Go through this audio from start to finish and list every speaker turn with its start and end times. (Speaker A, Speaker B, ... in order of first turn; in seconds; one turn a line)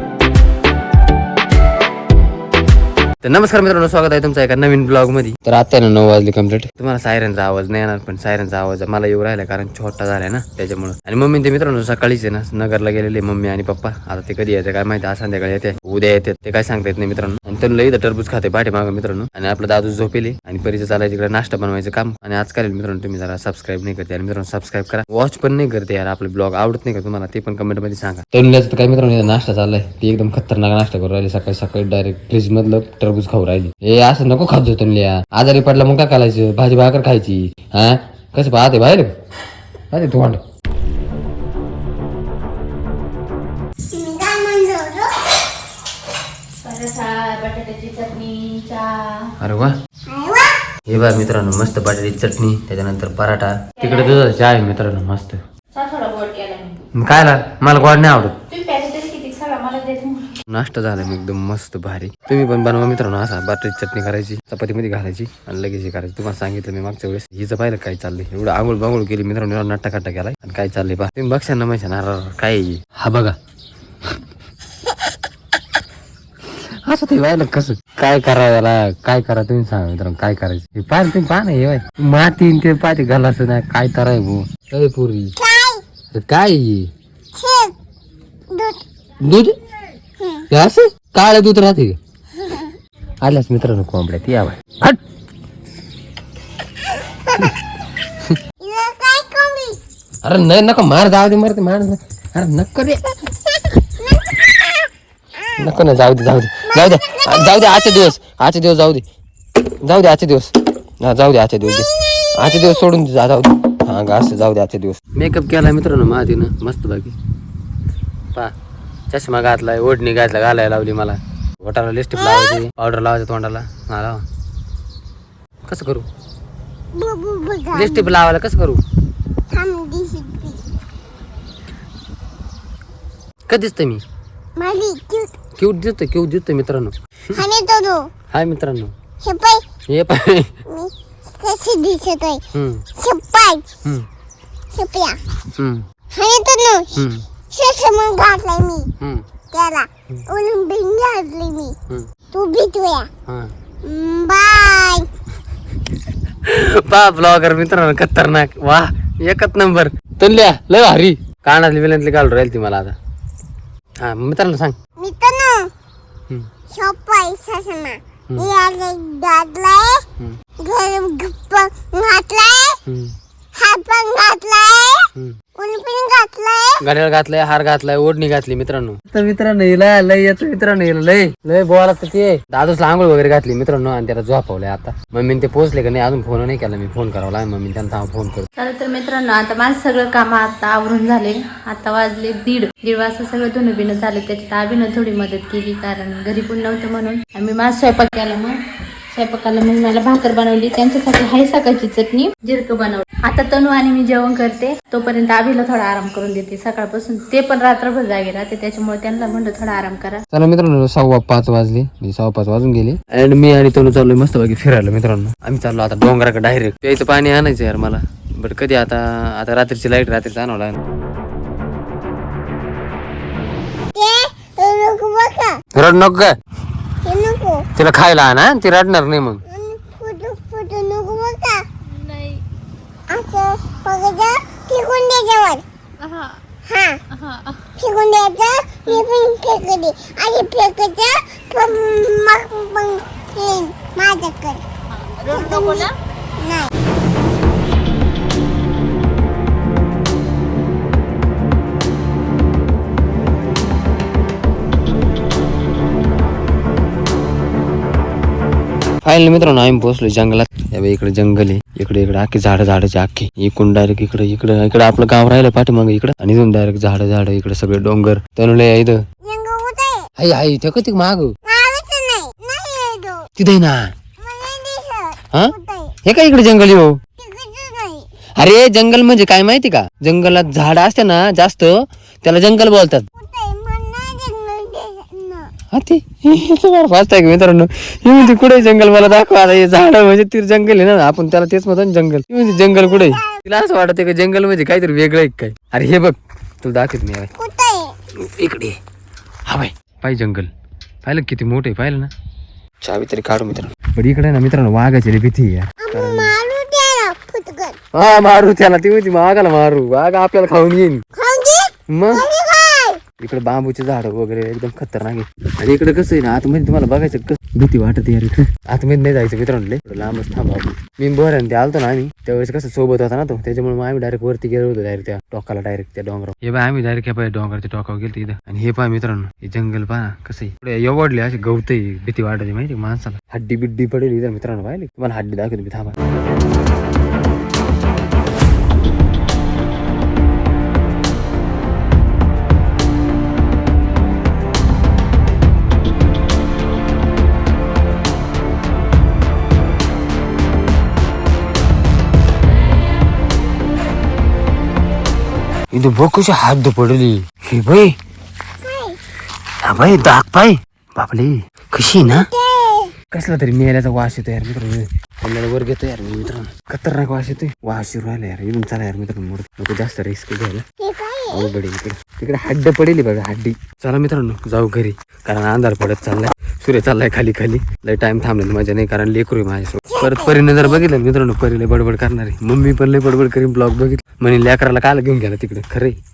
Speaker A: 3.2-39.1
Speaker A: 39.9-40.4
Speaker B: 43.9-45.4
Speaker C: 46.6-49.3
Speaker A: 49.4-49.8
Speaker B: 50.1-50.6
Speaker A: 50.9-55.4
Speaker C: 53.8-54.2
Speaker C: 55.7-56.8
Speaker A: 56.9-58.4
Speaker C: 58.5-60.4
Speaker A: 60.5-73.4
Speaker A: 76.5-85.3
Speaker B: 85.4-85.8
Speaker A: 86.1-86.9
Speaker B: 87.3-87.7
Speaker B: 88.5-88.8
Speaker A: 89.2-89.6
Speaker B: 90.2-90.5
Speaker A: 90.5-92.0
Speaker B: 92.4-92.7
Speaker A: 93.2-95.0
Speaker B: 98.6-99.8
Speaker A: 100.2-103.1
Speaker A: 105.6-109.0
Speaker B: 106.7-108.0
Speaker A: 109.8-117.1
Speaker A: 119.1-124.2
Speaker B: 122.2-122.6
Speaker A: 125.6-126.0
Speaker B: 126.9-128.1
Speaker A: 127.7-128.8
Speaker B: 129.5-130.7
Speaker A: 133.5-134.0
Speaker B: 134.6-135.4
Speaker A: 135.6-137.4
Speaker B: 137.3-138.1
Speaker A: 138.3-138.9
Speaker B: 139.2-139.6
Speaker A: 139.9-140.6
Speaker B: 140.7-142.4
Speaker A: 142.5-142.8
Speaker B: 142.9-143.7
Speaker B: 144.7-145.2
Speaker A: 145.6-145.8
Speaker B: 146.1-148.9
Speaker A: 146.9-147.2
Speaker B: 149.5-151.7
Speaker B: 152.3-153.1
Speaker A: 153.2-153.5
Speaker B: 153.8-155.1
Speaker A: 156.4-162.9
Speaker A: 164.0-164.8
Speaker B: 165.0-165.7
Speaker B: 166.7-170.0
Speaker B: 170.6-172.8
Speaker A: 172.8-173.1
Speaker B: 173.5-176.8
Speaker A: 176.8-188.4
Speaker C: 188.6-198.6
Speaker C: 199.1-210.2
Speaker A: 210.3-220.8
Speaker B: 223.9-225.6
Speaker A: 225.7-226.3
Speaker B: 227.0-227.7
Speaker A: 227.7-229.4
Speaker B: 229.5-231.6
Speaker C: 231.9-232.4
Speaker B: 233.1-235.6
Speaker C: 236.0-236.4
Speaker B: 236.7-237.0
Speaker C: 237.2-237.6
Speaker B: 237.8-244.6
Speaker C: 244.9-245.9
Speaker B: 245.2-246.7
Speaker A: 259.0-269.0
Speaker B: 269.2-270.1
Speaker A: 270.2-271.3
Speaker B: 271.5-273.3
Speaker A: 273.4-273.9
Speaker B: 274.2-276.0
Speaker A: 276.1-277.0
Speaker B: 277.2-278.1
Speaker A: 278.4-283.1
Speaker B: 283.1-285.5
Speaker A: 285.7-297.3
Speaker B: 292.6-293.4
Speaker B: 297.4-297.9
Speaker A: 298.2-298.8
Speaker A: 299.5-300.5
Speaker A: 301.0-302.1
Speaker A: 302.8-306.4
Speaker B: 305.8-307.8
Speaker A: 307.9-311.0
Speaker B: 311.2-313.0
Speaker A: 311.9-312.3
Speaker A: 313.2-336.0
Speaker A: 355.7-358.0
Speaker B: 358.6-359.0
Speaker A: 359.6-362.3
Speaker B: 362.0-362.9
Speaker A: 363.1-370.6
Speaker B: 370.8-371.6
Speaker A: 371.3-386.0
Speaker B: 379.9-380.9